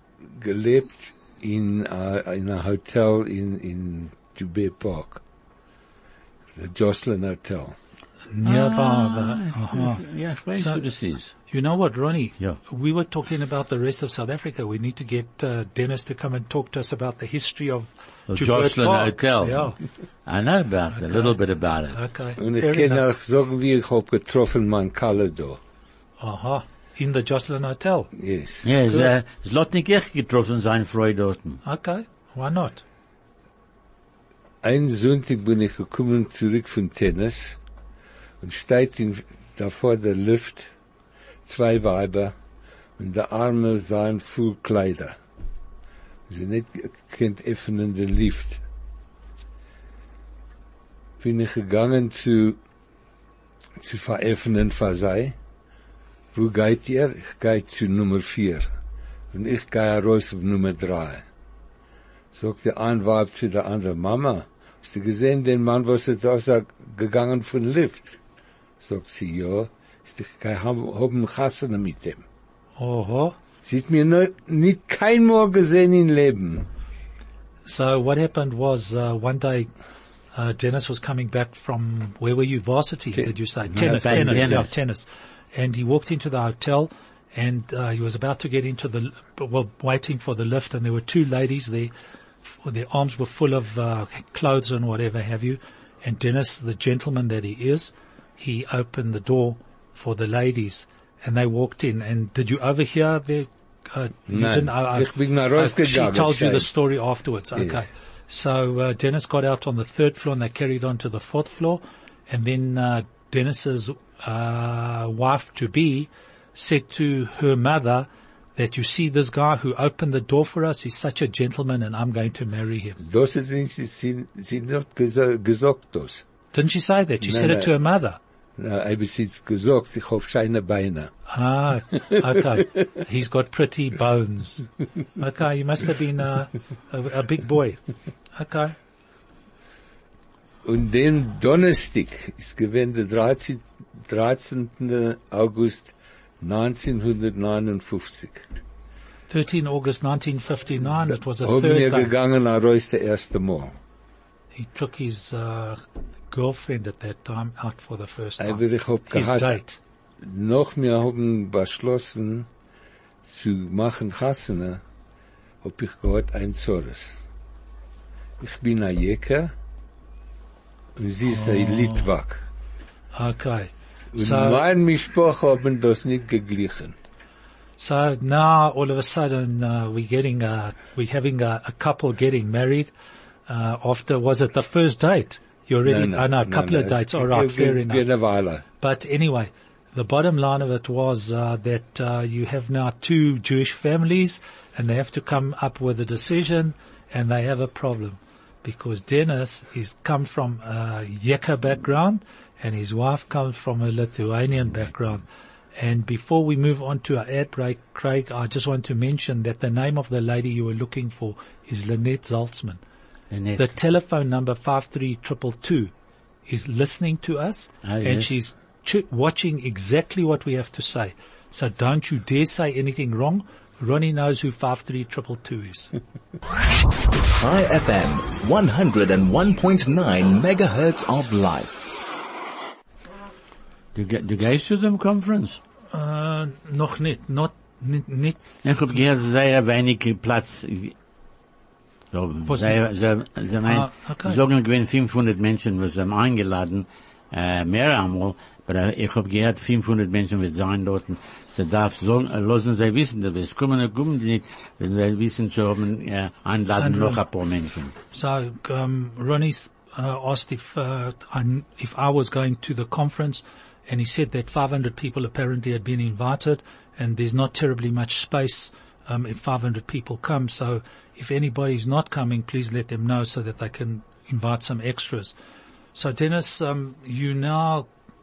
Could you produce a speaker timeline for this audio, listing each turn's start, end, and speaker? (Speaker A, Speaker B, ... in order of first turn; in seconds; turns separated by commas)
Speaker A: 0.2-5.2, Speaker A: 6.5-7.7, Speaker B: 8.3-10.0, Speaker C: 8.4-11.3, Speaker B: 10.6-10.8, Speaker B: 11.5-19.8, Speaker C: 18.3-19.7, Speaker C: 20.2-22.0, Speaker B: 20.9-21.4, Speaker B: 21.9-23.0, Speaker A: 22.4-25.6, Speaker B: 26.2-28.1, Speaker A: 28.1-28.6, Speaker C: 28.6-31.6, Speaker B: 31.6-32.8, Speaker A: 34.6-37.6, Speaker A: 38.4-40.7, Speaker A: 41.4-42.3, Speaker A: 43.0-45.2, Speaker A: 46.3-48.6, Speaker A: 51.2-52.6, Speaker A: 53.8-55.3, Speaker A: 56.3-58.7, Speaker A: 59.3-61.2, Speaker A: 62.3-68.2, Speaker A: 68.8-72.2, Speaker B: 72.8-73.3, Speaker A: 73.6-76.7, Speaker B: 77.7-79.7, Speaker B: 80.3-91.9, Speaker A: 83.1-84.6, Speaker C: 83.7-84.7, Speaker B: 92.4-123.0, Speaker A: 104.3-106.7, Speaker A: 107.5-107.8, Speaker A: 123.0-126.2, Speaker B: 126.5-128.2, Speaker A: 127.2-127.7, Speaker A: 128.6-131.1, Speaker B: 131.3-137.8, Speaker B: 138.3-138.8, Speaker A: 140.6-148.5, Speaker B: 149.3-152.1, Speaker A: 151.4-153.7, Speaker B: 154.5-159.8, Speaker A: 158.4-159.6, Speaker A: 160.2-162.5, Speaker A: 163.3-164.8, Speaker A: 165.6-167.2, Speaker A: 168.4-169.5, Speaker A: 170.9-172.4, Speaker B: 171.3-172.1, Speaker B: 173.1-174.6, Speaker A: 174.1-177.0, Speaker B: 177.8-182.9, Speaker B: 183.5-188.1, Speaker A: 185.8-188.6, Speaker B: 188.8-205.2, Speaker B: 205.8-212.8, Speaker C: 213.3-213.7, Speaker B: 213.6-215.9, Speaker B: 216.5-225.9, Speaker C: 217.8-218.3, Speaker D: 227.3-231.9, Speaker C: 233.9-235.6, Speaker B: 235.9-238.4, Speaker C: 238.6-240.9, Speaker C: 242.1-257.9, Speaker B: 242.5-242.8, Speaker B: 243.7-244.4, Speaker B: 256.8-257.2, Speaker B: 258.1-275.3, Speaker B: 275.9-277.9